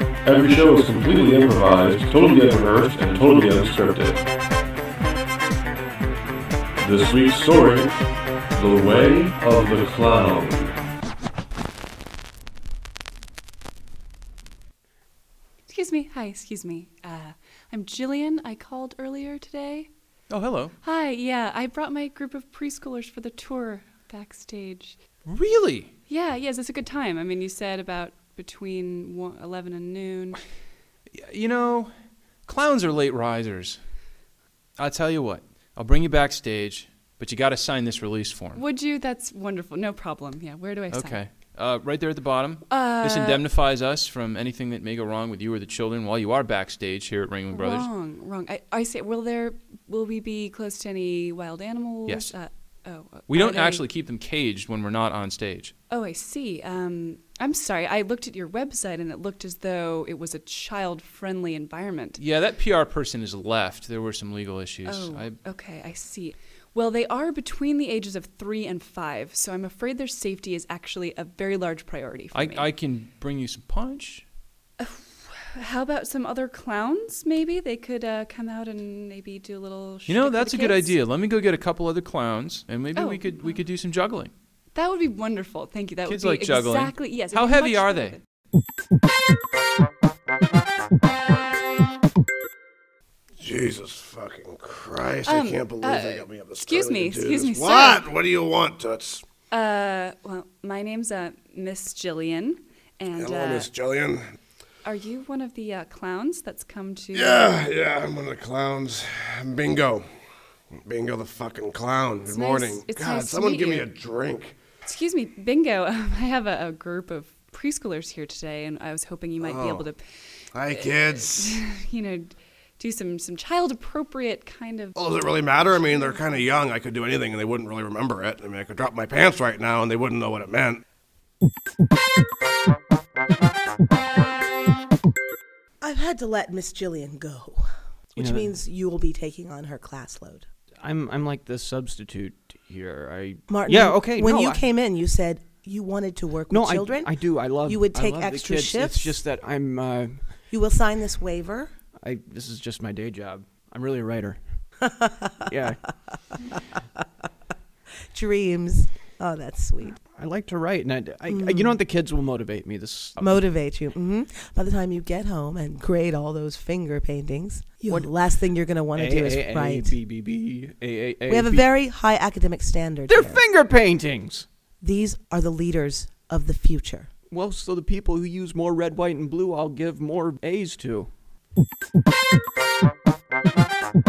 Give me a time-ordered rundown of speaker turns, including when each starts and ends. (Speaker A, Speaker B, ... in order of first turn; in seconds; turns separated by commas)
Speaker A: 0.2-4.2, Speaker A: 6.8-7.9, Speaker A: 8.5-10.7, Speaker B: 15.7-19.9, Speaker C: 20.3-20.7, Speaker B: 20.8-25.0, Speaker C: 25.2-25.9, Speaker B: 26.1-30.4, Speaker C: 31.1-31.9, Speaker C: 32.5-33.8, Speaker C: 34.8-38.6, Speaker B: 38.5-41.2, Speaker C: 40.9-47.9, Speaker B: 42.7-43.4, Speaker B: 47.5-53.8, Speaker C: 52.1-52.3, Speaker C: 53.3-55.7, Speaker B: 55.9-62.2, Speaker C: 62.2-65.4, Speaker B: 64.8-72.7, Speaker C: 72.3-74.2, Speaker B: 74.8-81.0, Speaker C: 80.1-84.3, Speaker B: 83.0-83.6, Speaker B: 84.7-88.2, Speaker C: 86.0-88.1, Speaker D: 93.4-99.2, Speaker B: 95.2-98.1, Speaker B: 99.5-103.7, Speaker D: 103.1-104.2, Speaker B: 104.8-107.6, Speaker D: 107.1-110.0, Speaker D: 110.8-114.6, Speaker B: 112.3-113.9, Speaker B: 114.8-120.0, Speaker D: 119.4-119.9, Speaker D: 120.5-121.6, Speaker B: 120.7-124.9, Speaker D: 125.0-130.8, Speaker B: 125.7-126.2, Speaker E: 135.8-137.6, Speaker F: 138.2-138.6, Speaker E: 138.2-140.4, Speaker F: 140.8-144.7, Speaker E: 143.5-147.1, Speaker F: 146.5-150.2, Speaker E: 147.6-149.2, Speaker E: 150.5-151.7, Speaker F: 152.0-154.4, Speaker E: 154.9-155.6, Speaker F: 155.5-155.8, Speaker E: 158.1-160.0, Speaker F: 160.1-163.4, Speaker E: 161.3-161.8, Speaker E: 163.2-170.0, Speaker F: 168.9-171.7, Speaker E: 171.3-173.4, Speaker F: 173.1-174.5, Speaker E: 174.8-177.1, Speaker F: 177.3-181.1